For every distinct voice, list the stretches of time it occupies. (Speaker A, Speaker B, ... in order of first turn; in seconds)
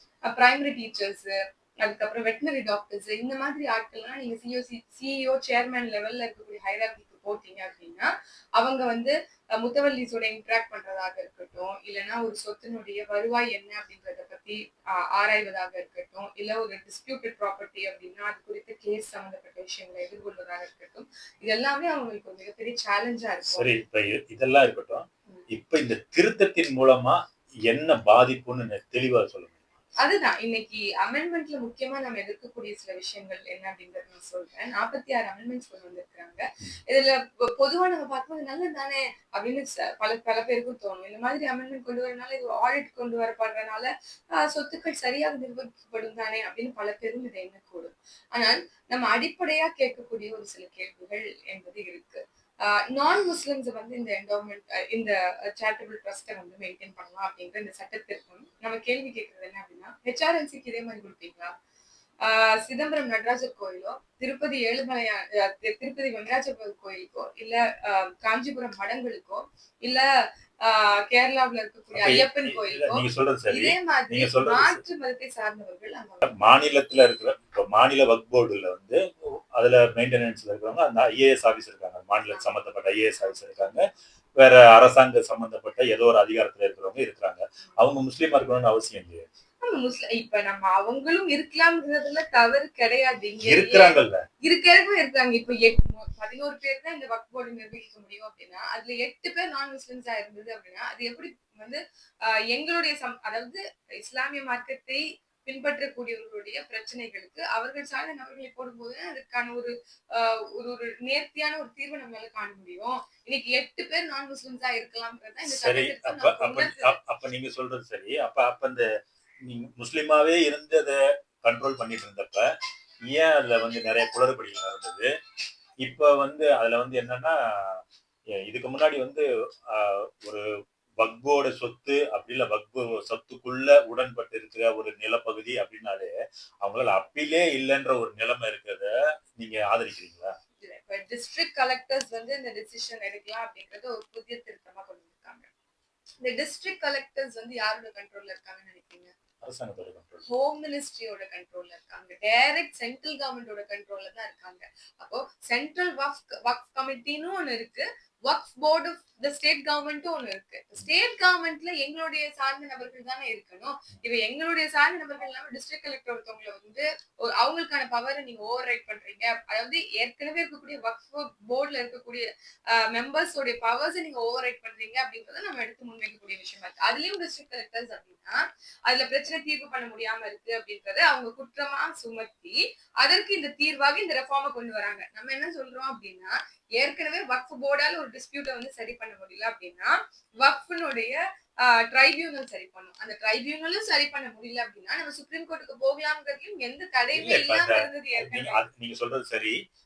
Speaker A: 0.2-23.7, 30.0-61.5, 62.2-70.0, 70.6-76.3, 83.2-83.9, 89.6-117.0, 140.6-145.5, 146.2-149.1, 150.2-198.6
Speaker B: 23.5-29.7, 71.9-74.8, 76.2-89.2, 93.5-94.2, 115.5-118.8, 119.4-122.5, 123.1-125.1, 125.8-127.8, 128.4-130.4, 131.0-136.1, 136.6-140.3, 149.4-150.2, 197.1-199.6